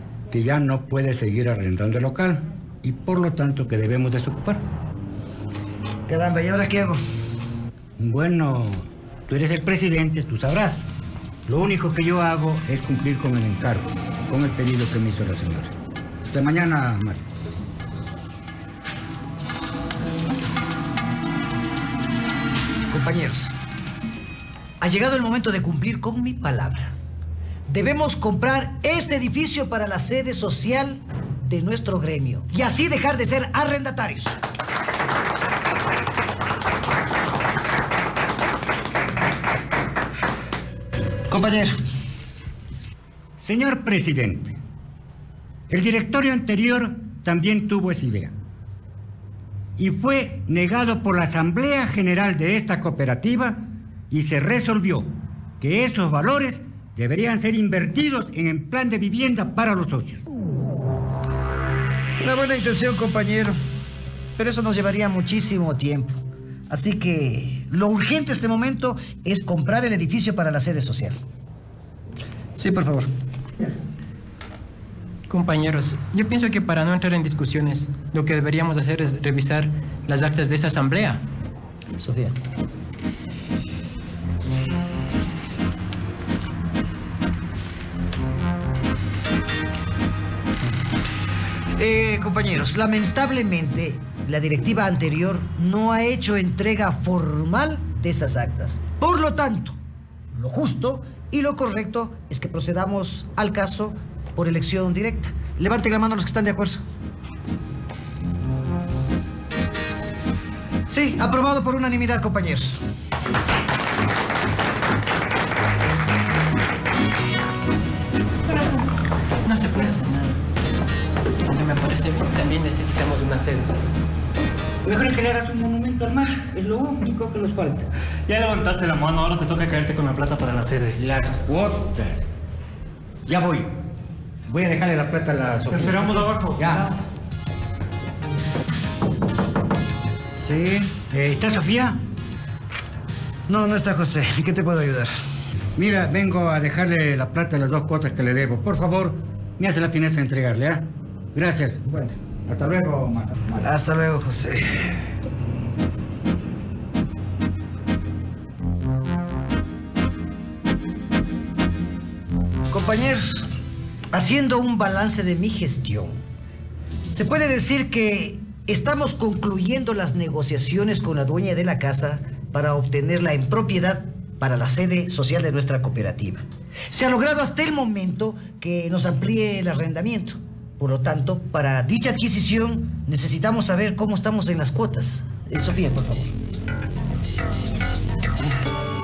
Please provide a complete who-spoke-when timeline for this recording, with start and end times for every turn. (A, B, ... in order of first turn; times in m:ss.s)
0:00.3-0:04.6 A
0:06.1-0:07.0 B
0:08.0-0:10.9 A
0:11.5-0:15.7 A
0:16.3-0:17.2 A
0:22.9-0:23.5 B
0:24.8-0:27.0 B
0:27.7-0:34.4 B
0:41.3-0:41.7 B
0:43.4-0:44.6 A
0:45.7-0:48.3 A
0:49.8-1:00.2 A
1:02.2-1:03.6 B
1:04.4-1:11.2 B
1:12.6-1:13.1 B
1:15.3-1:21.2 C
1:22.0-1:22.3 B
1:31.8-1:39.8 B
1:40.3-1:46.8 B
1:50.9-1:52.8 B
1:59.4-2:00.4 C
2:01.4-2:03.8 C
2:04.8-2:07.9 A
2:08.3-2:11.0 D
2:10.9-2:12.3 A
2:13.2-2:13.7 A
2:14.5-2:16.9 A
2:15.7-2:16.8 D
2:20.4-2:22.0 A
2:23.5-2:25.1 B
2:25.8-2:33.7 A
2:33.6-2:34.9 B
2:42.7-2:43.5 B
2:44.1-2:46.2 B
2:47.1-3:06.3 B